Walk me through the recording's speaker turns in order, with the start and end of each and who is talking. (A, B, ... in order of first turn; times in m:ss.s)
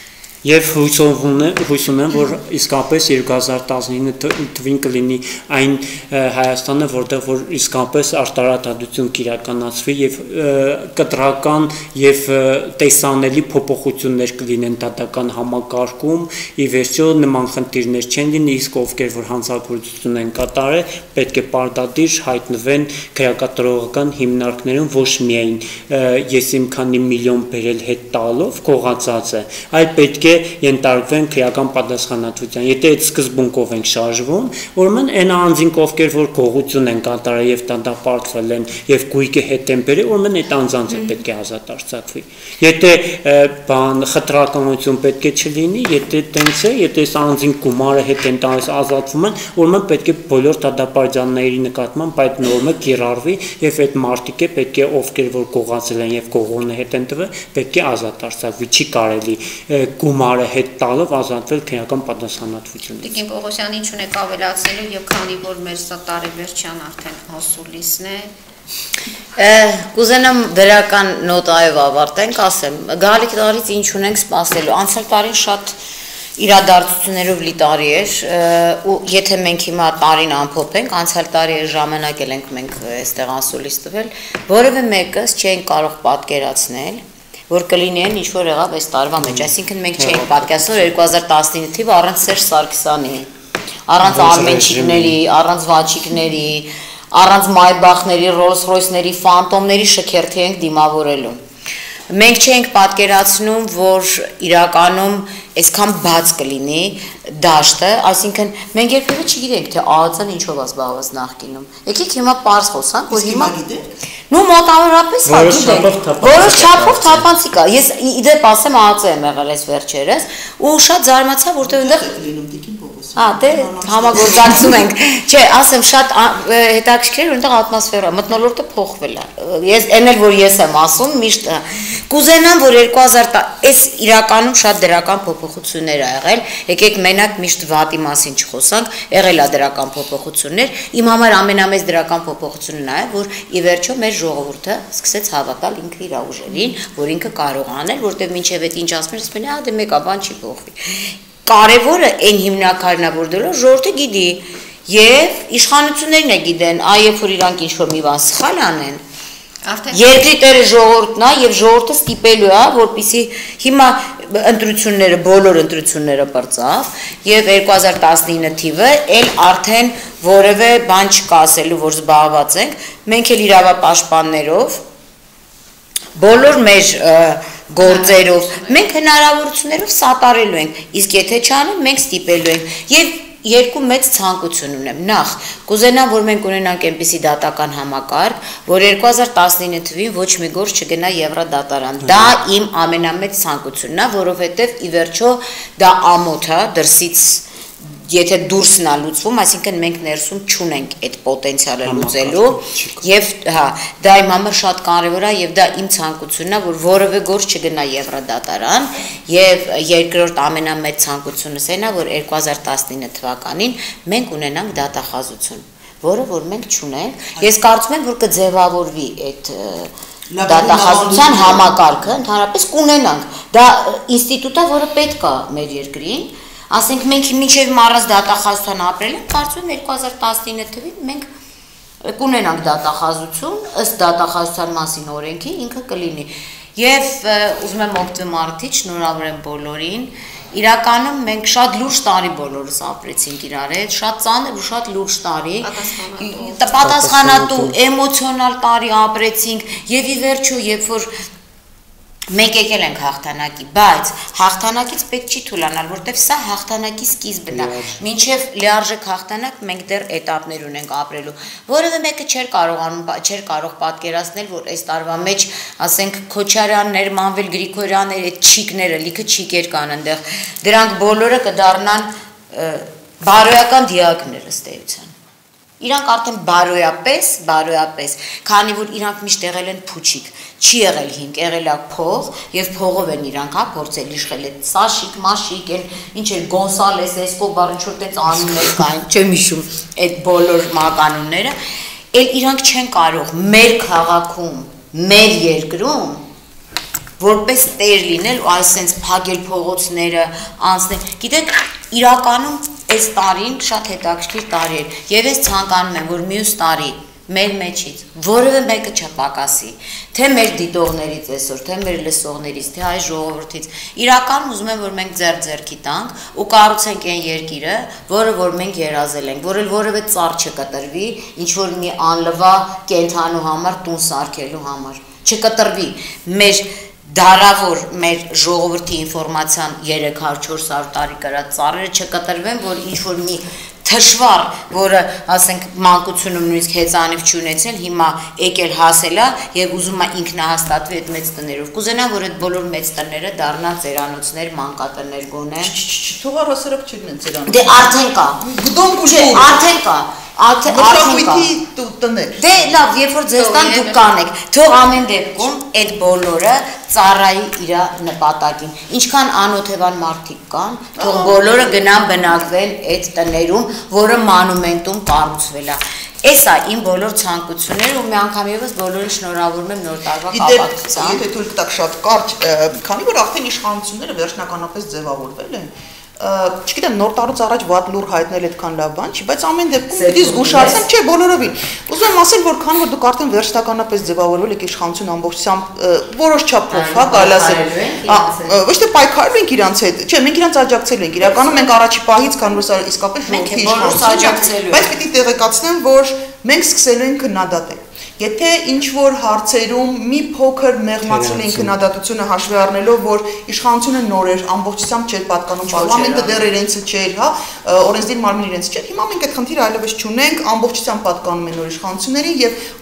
0:00.4-1:03.2 A
1:03.0-1:08.3 B
1:09.4-1:15.8 C
1:16.4-1:33.3 C
1:29.2-1:30.9 A
1:33.9-1:41.4 C
1:34.0-1:35.2 A
1:42.1-1:53.5 C
1:53.1-1:53.9 D
1:54.3-2:02.1 C
1:55.3-1:57.3 A
2:01.6-2:04.8 D
2:03.2-2:39.0 C
2:39.6-2:40.2 B
2:39.9-2:54.8 C
2:56.2-3:39.9 C
2:57.8-2:58.9 B
3:12.0-3:12.4 A
3:21.8-3:23.1 A
3:40.3-3:42.1 D
3:40.5-3:51.3 C
3:52.0-4:11.1 C
4:05.6-4:06.7 B
4:06.8-4:07.8 A
4:12.3-4:35.1 C
4:17.5-4:18.0 A
4:35.8-4:51.6 C
4:52.1-4:56.2 C
4:57.2-5:45.7 C
5:45.6-5:49.6 D
5:47.5-5:48.4 C
5:49.0-5:51.5 C
5:50.7-5:52.5 D
5:52.4-6:11.2 C
5:53.4-5:54.1 B
6:01.0-6:01.8 D
6:10.3-6:52.6 D
6:19.9-6:20.8 C
6:26.7-6:28.6 C
6:33.3-6:34.9 C
6:41.0-6:41.8 A
6:45.7-6:46.5 C